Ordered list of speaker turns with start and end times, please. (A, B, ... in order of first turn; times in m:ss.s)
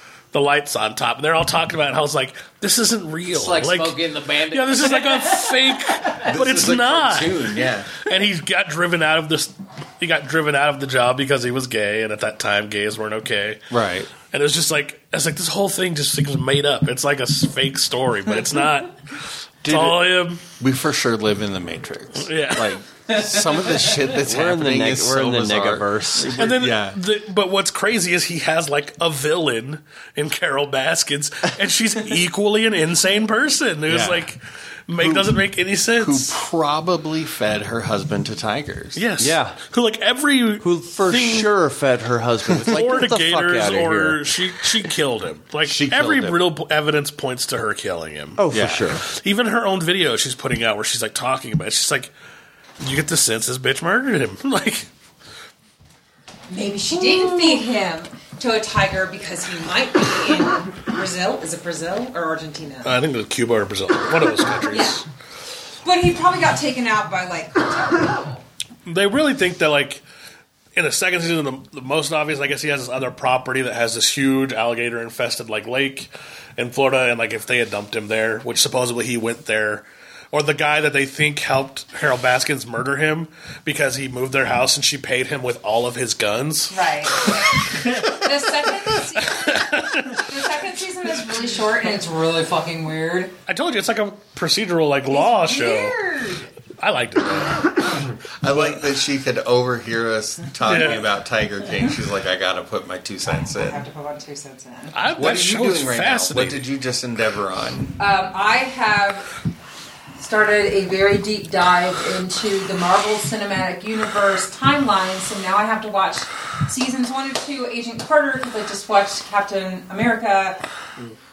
0:00.3-0:04.0 A
0:03.3-0:06.2 B
0:04.5-0:13.6 A
0:06.2-0:08.0 C
0:13.7-0:14.1 C
0:14.3-0:20.4 A
0:19.6-0:20.1 C
0:20.6-0:27.0 C
0:22.2-0:22.8 A
0:23.1-0:24.1 B
0:24.2-0:26.4 D
0:26.4-0:36.3 A
0:33.9-0:34.3 C
0:35.0-0:35.4 C
0:36.0-0:39.0 C
0:39.0-0:41.5 A
0:39.2-0:39.6 D
0:40.6-0:44.4 D
0:42.7-0:48.4 A
0:45.7-0:46.4 C
0:48.4-0:49.0 D
0:48.5-0:48.9 C
0:48.9-0:52.1 A
0:52.8-0:54.9 A
0:56.5-1:03.0 E
1:02.8-1:05.0 A
1:04.7-1:05.0 E
1:05.8-1:08.4 E
1:08.9-1:10.0 A
1:10.8-1:28.0 A
1:26.7-1:33.3 E
1:29.1-1:30.2 A
1:33.5-1:36.0 A
1:35.1-1:36.5 E
1:36.8-1:38.0 A
1:38.4-1:43.8 C
1:40.6-1:41.1 A
1:43.4-1:45.0 E
1:44.9-1:46.7 A
1:45.2-1:48.0 C
1:48.0-1:49.3 E
1:50.2-2:00.6 E